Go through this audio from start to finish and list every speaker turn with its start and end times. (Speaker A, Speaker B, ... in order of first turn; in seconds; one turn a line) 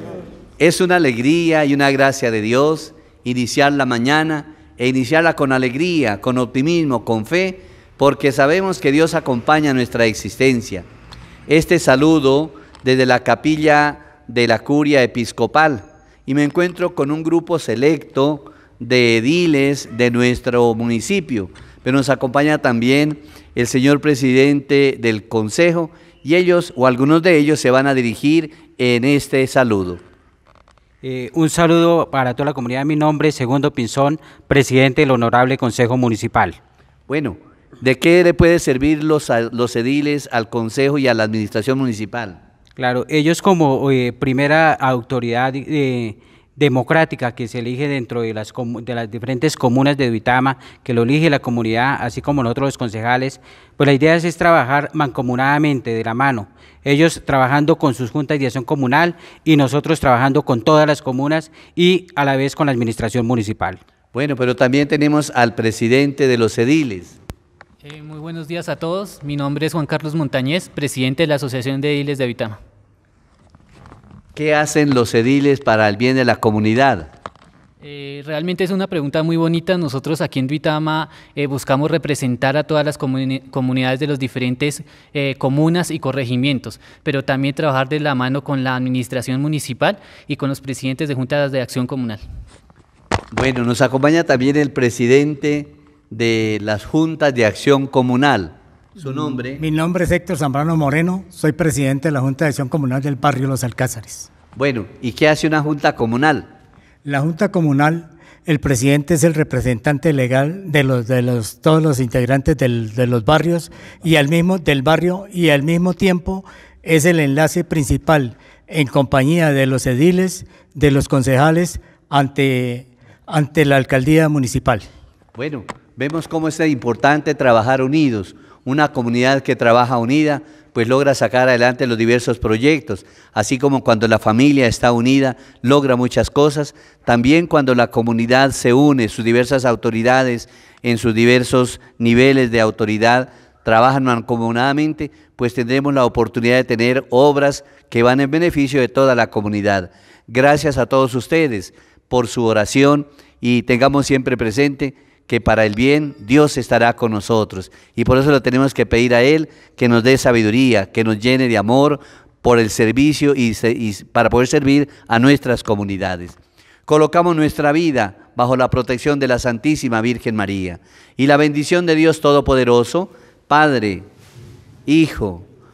Speaker A: 0.6-10.9
Speaker A: 11.5-30.0
Speaker B: 31.0-36.6
Speaker A: 37.1-42.4
Speaker B: 42.8-63.8
Speaker A: 64.1-67.2
Speaker C: 67.8-72.6
Speaker A: 74.3-77.1
Speaker C: 77.8-92.2
Speaker A: 93.3-99.6
Speaker D: 99.5-104.3
Speaker A: 104.6-106.5
Speaker D: 107.0-124.8
Speaker A: 125.4-174.1
Speaker A: 174.9-175.4